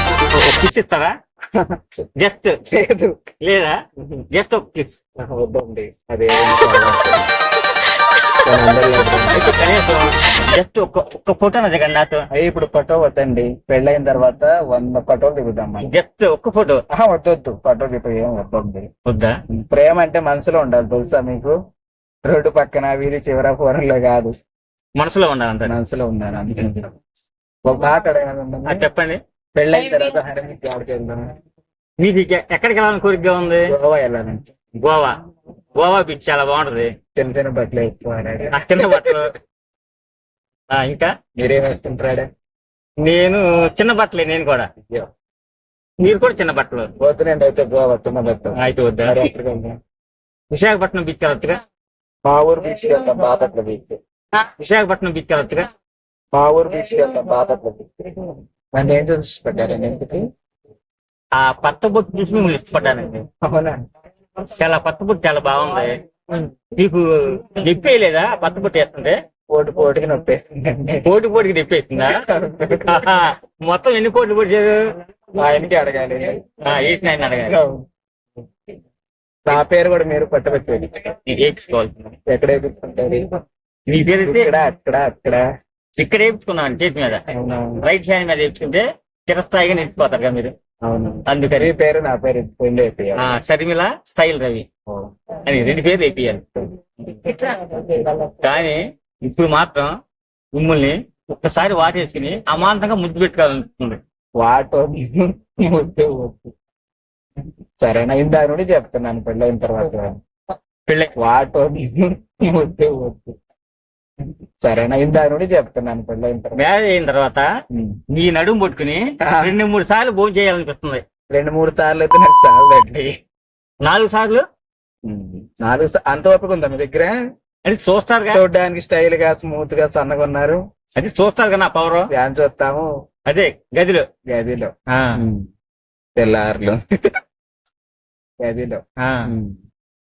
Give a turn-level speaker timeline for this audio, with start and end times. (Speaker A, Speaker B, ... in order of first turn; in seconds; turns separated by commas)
Speaker A: 0.3-1.1, Speaker B: 1.5-1.8, Speaker A: 2.2-2.6, Speaker B: 2.7-3.2, Speaker A: 3.4-3.8, Speaker A: 4.3-5.0, Speaker B: 5.2-7.3, Speaker B: 8.4-9.5, Speaker A: 9.3-12.2, Speaker B: 12.3-15.9, Speaker A: 15.8-16.8, Speaker B: 16.9-18.9, Speaker A: 19.0-19.4, Speaker B: 19.5-21.6, Speaker B: 22.2-24.3, Speaker A: 25.0-25.7, Speaker B: 25.6-26.9, Speaker B: 27.6-28.9, Speaker A: 28.6-29.2, Speaker B: 29.6-31.3, Speaker A: 32.0-33.7, Speaker B: 33.7-34.5, Speaker A: 34.8-35.1, Speaker A: 35.8-36.9, Speaker B: 37.1-39.2, Speaker A: 38.5-39.3, Speaker A: 40.7-41.1, Speaker B: 41.4-42.3, Speaker A: 43.0-44.7, Speaker A: 46.0-46.9, Speaker B: 47.0-49.8, Speaker A: 48.5-49.2, Speaker A: 50.5-51.6, Speaker B: 52.2-54.0, Speaker A: 54.4-55.7, Speaker B: 56.3-60.2, Speaker A: 61.3-63.2, Speaker B: 63.4-63.8, Speaker A: 64.4-66.0, Speaker A: 66.7-69.2, Speaker B: 69.5-71.1, Speaker A: 71.0-72.2, Speaker B: 72.0-73.2, Speaker A: 72.8-74.8, Speaker B: 75.3-76.4, Speaker A: 76.6-77.6, Speaker B: 77.5-77.8, Speaker B: 79.5-81.1, Speaker A: 81.2-82.1, Speaker B: 82.3-83.3, Speaker A: 83.9-84.5, Speaker B: 84.1-85.4, Speaker A: 86.0-87.2, Speaker B: 87.3-87.8, Speaker A: 87.8-90.5, Speaker B: 90.8-93.3, Speaker A: 91.2-91.7, Speaker A: 93.2-94.7, Speaker A: 95.4-96.4, Speaker B: 97.0-98.3, Speaker A: 98.4-99.9, Speaker A: 100.5-104.0, Speaker B: 104.4-106.5, Speaker B: 107.8-110.2, Speaker A: 110.9-111.1, Speaker B: 111.2-113.3, Speaker B: 114.6-116.7, Speaker A: 116.5-117.5, Speaker B: 117.7-118.0, Speaker A: 118.1-121.0, Speaker B: 119.2-119.5, Speaker B: 121.3-123.1, Speaker A: 123.8-124.4, Speaker B: 125.0-127.1, Speaker A: 127.6-128.4, Speaker B: 128.3-130.6, Speaker A: 131.0-132.1, Speaker B: 132.1-132.9, Speaker A: 133.3-134.1, Speaker B: 134.3-135.5, Speaker A: 134.9-135.2, Speaker B: 136.2-137.1, Speaker B: 138.4-139.6, Speaker A: 139.0-139.3